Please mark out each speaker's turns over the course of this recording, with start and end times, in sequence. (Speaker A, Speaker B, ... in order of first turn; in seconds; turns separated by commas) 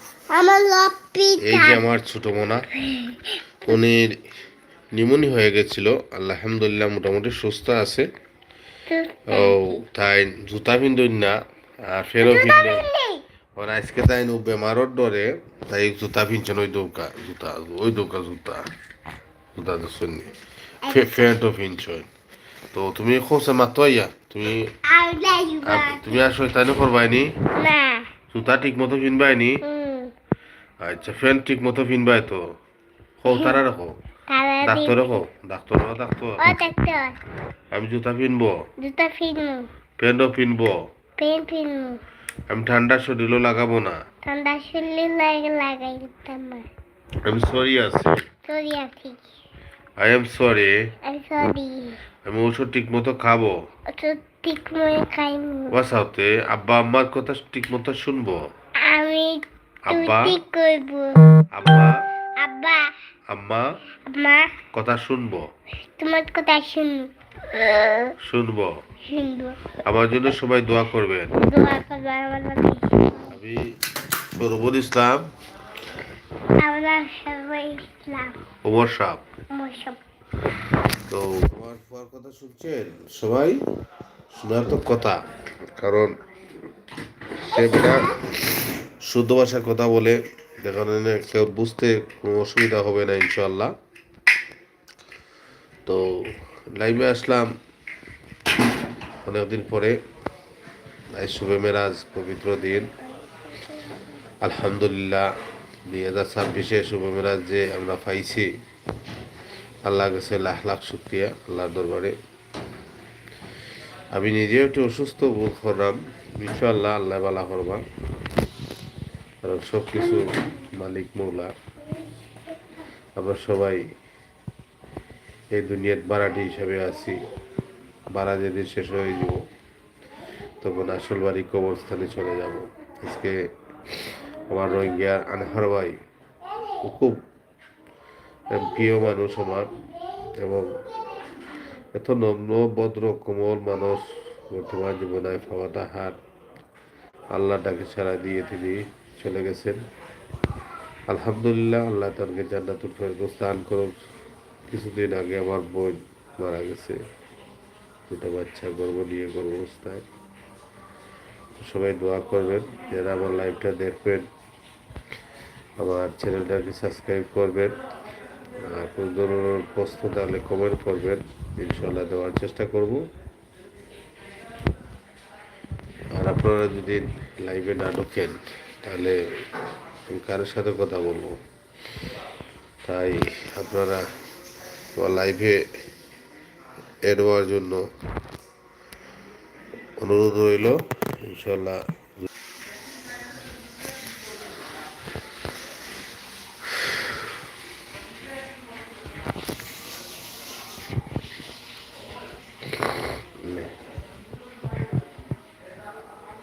Speaker A: 0.3-1.8, Speaker B: 1.4-2.6, Speaker A: 2.7-3.8, Speaker B: 3.6-4.1, Speaker B: 4.9-8.1, Speaker A: 8.9-9.8, Speaker B: 9.3-11.3, Speaker B: 11.9-12.8, Speaker A: 12.2-13.2, Speaker B: 13.6-18.6, Speaker B: 19.5-20.3, Speaker B: 20.9-22.1, Speaker B: 22.7-24.7, Speaker A: 24.8-26.2, Speaker B: 25.6-27.3, Speaker A: 27.5-28.1, Speaker B: 28.3-29.6, Speaker A: 29.6-30.1, Speaker B: 30.8-32.4, Speaker B: 33.2-33.9, Speaker A: 33.3-33.6, Speaker A: 34.3-35.2, Speaker B: 34.6-36.6, Speaker A: 36.4-37.1, Speaker B: 37.7-38.5, Speaker A: 38.8-39.7, Speaker B: 40.0-40.7, Speaker A: 41.2-42.0, Speaker B: 42.5-44.0, Speaker A: 44.2-46.7, Speaker B: 47.2-48.2, Speaker A: 48.5-49.2, Speaker B: 50.0-50.7, Speaker A: 51.0-52.0, Speaker B: 52.2-53.5, Speaker A: 53.9-55.7, Speaker B: 55.7-58.4, Speaker A: 58.8-61.5, Speaker B: 59.9-60.4, Speaker B: 61.5-62.0, Speaker A: 62.4-62.9, Speaker B: 63.3-63.6, Speaker A: 64.1-64.6, Speaker B: 64.7-65.4, Speaker A: 66.0-68.1, Speaker B: 68.2-68.7, Speaker A: 69.1-69.6, Speaker B: 69.8-71.3, Speaker A: 71.3-73.3, Speaker B: 73.3-73.7, Speaker B: 74.3-75.3, Speaker A: 76.6-78.4, Speaker B: 78.6-79.2, Speaker A: 79.5-80.0, Speaker B: 81.1-83.6, Speaker B: 84.3-85.2, Speaker B: 85.8-86.1, Speaker B: 87.4-88.1, Speaker A: 87.5-88.0, Speaker B: 89.0-93.7, Speaker B: 96.8-97.5, Speaker B: 99.2-100.0, Speaker B: 101.2-102.9, Speaker A: 103.0-104.0, Speaker B: 104.4-105.2, Speaker B: 105.9-108.5, Speaker B: 109.8-112.1, Speaker B: 114.1-117.8, Speaker B: 119.4-121.5, Speaker A: 122.0-122.4, Speaker B: 123.2-123.8, Speaker B: 125.5-127.2, Speaker B: 128.1-129.4, Speaker B: 130.6-133.3, Speaker B: 134.5-136.0, Speaker B: 136.8-137.2, Speaker B: 138.5-139.7, Speaker B: 140.4-140.7, Speaker B: 141.9-146.2, Speaker B: 147.3-149.8, Speaker B: 151.1-153.9, Speaker B: 154.7-157.0, Speaker B: 158.1-160.0, Speaker B: 161.6-164.3, Speaker B: 165.8-167.7, Speaker B: 168.7-173.0, Speaker B: 176.2-179.2, Speaker B: 180.1-181.3, Speaker B: 182.8-184.0, Speaker B: 185.0-185.6, Speaker B: 187.1-187.8, Speaker B: 190.0-192.3, Speaker B: 203.4-203.7